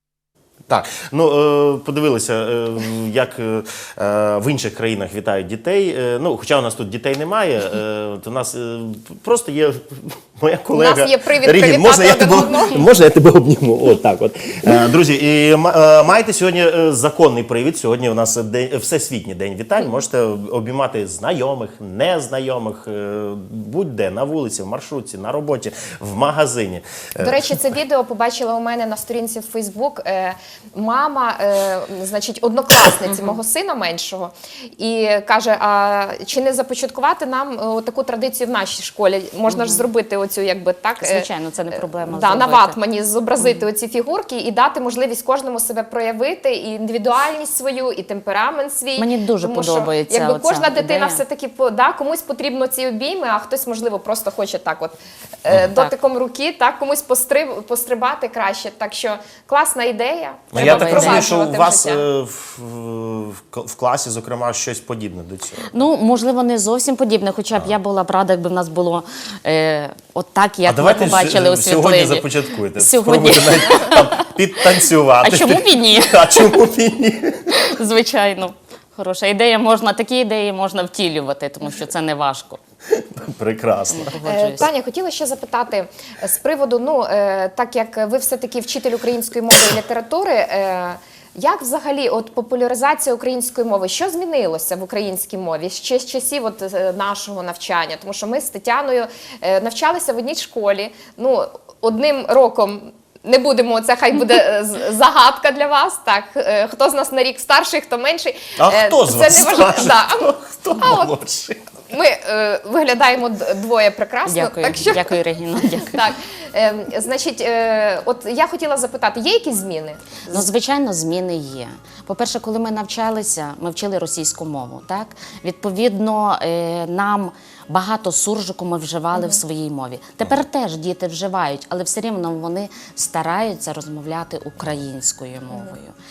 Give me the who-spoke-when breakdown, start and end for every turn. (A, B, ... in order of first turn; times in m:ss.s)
0:00.7-0:27.5 A
0:10.7-0:12.9 B
0:27.2-0:41.2 B
0:39.5-0:39.8 C
0:41.0-0:42.8 C
0:42.0-1:02.0 B
0:49.0-0:51.2 C
1:00.5-1:05.7 A
1:00.5-1:01.3 C
1:05.7-1:14.2 C
1:10.6-1:17.5 A
1:15.2-1:16.6 C
1:17.5-1:22.6 C
1:22.9-1:24.2 A
1:23.9-1:24.7 C
1:24.2-1:51.2 B
1:48.6-1:51.6 A
1:51.9-1:55.2 B
1:54.3-1:56.0 C
1:55.9-2:00.5 B
2:00.3-2:15.9 C
2:09.1-2:09.4 B
2:15.5-2:15.7 B